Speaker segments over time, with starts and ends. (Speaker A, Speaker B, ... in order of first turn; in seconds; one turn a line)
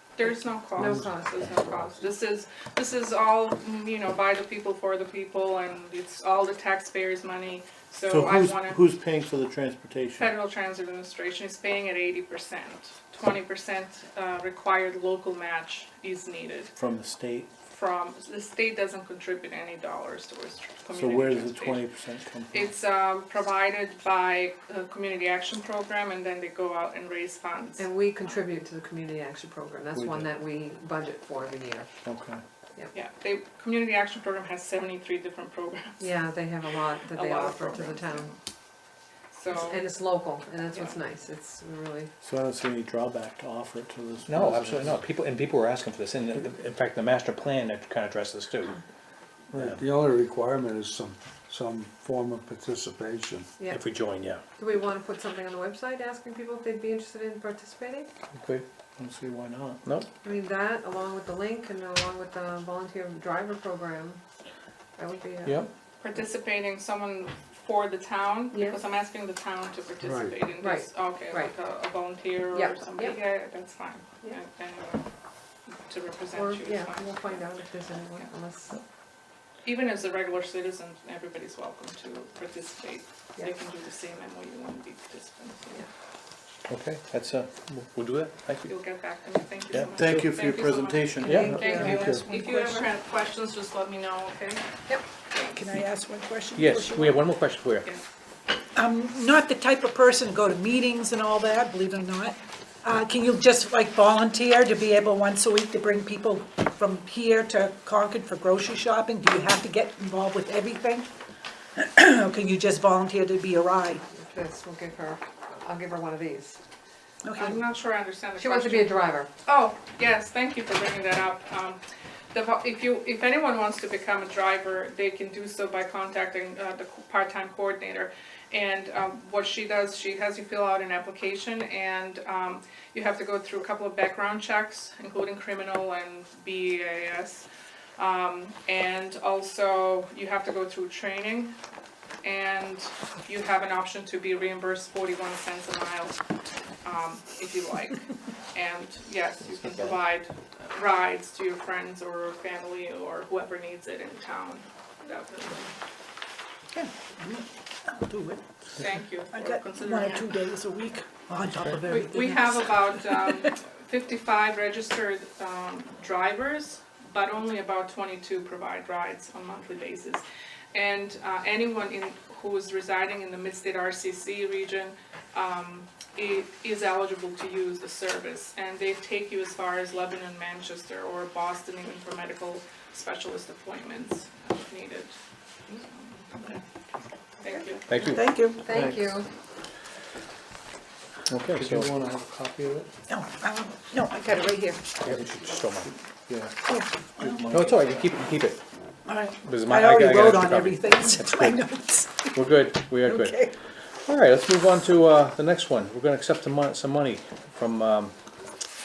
Speaker A: 0.1-8.8
Speaker B: 0.2-1.9
Speaker C: 8.1-10.3
Speaker A: 10.2-16.7
Speaker C: 16.8-17.5
Speaker A: 17.7-21.8
Speaker C: 20.9-22.7
Speaker A: 22.5-27.8
Speaker B: 27.8-31.9
Speaker C: 29.9-30.3
Speaker C: 32.0-32.4
Speaker A: 32.9-36.0
Speaker B: 36.0-38.3
Speaker A: 37.0-38.4
Speaker A: 39.3-39.8
Speaker B: 39.5-42.1
Speaker C: 42.2-45.0
Speaker D: 44.3-48.8
Speaker E: 49.5-53.5
Speaker D: 49.5-49.8
Speaker B: 53.6-53.8
Speaker D: 53.7-54.4
Speaker B: 54.6-58.1
Speaker D: 58.3-58.6
Speaker C: 59.0-59.8
Speaker B: 60.2-64.2
Speaker B: 65.0-65.6
Speaker A: 66.0-75.0
Speaker B: 68.5-68.8
Speaker E: 70.0-70.3
Speaker B: 70.5-71.5
Speaker B: 72.5-73.2
Speaker A: 75.7-77.5
Speaker B: 76.3-78.8
Speaker A: 79.6-85.8
Speaker D: 86.7-88.7
Speaker A: 88.7-94.6
Speaker D: 89.7-90.1
Speaker C: 89.9-92.2
Speaker B: 91.2-92.8
Speaker D: 91.2-91.5
Speaker F: 95.3-97.2
Speaker D: 96.5-97.9
Speaker F: 98.7-111.1
Speaker F: 111.8-114.0
Speaker B: 114.1-116.6
Speaker F: 117.2-117.6
Speaker A: 117.4-121.8
Speaker B: 118.4-119.3
Speaker A: 122.3-137.4
Speaker A: 138.0-141.5
Speaker A: 142.2-146.2
Speaker A: 146.8-155.7
Speaker D: 149.6-149.9
Speaker F: 156.7-158.8
Speaker A: 158.8-160.4
Speaker F: 159.3-163.5
Speaker A: 161.8-185.2
Speaker A: 185.7-186.6
Speaker A: 187.4-187.9
Speaker D: 187.9-188.2
Speaker F: 188.1-188.6
Speaker B: 188.6-189.3
Speaker C: 188.7-189.2
Speaker C: 191.3-192.9
Speaker D: 191.3-191.9
Speaker F: 193.1-194.9
Speaker D: 195.0-195.9
Speaker C: 196.3-196.6
Speaker F: 196.7-197.4
Speaker C: 197.2-197.8
Speaker D: 197.5-198.6
Speaker F: 199.1-202.4
Speaker D: 199.4-201.6
Speaker D: 202.3-203.4
Speaker F: 203.0-203.5
Speaker D: 204.0-208.1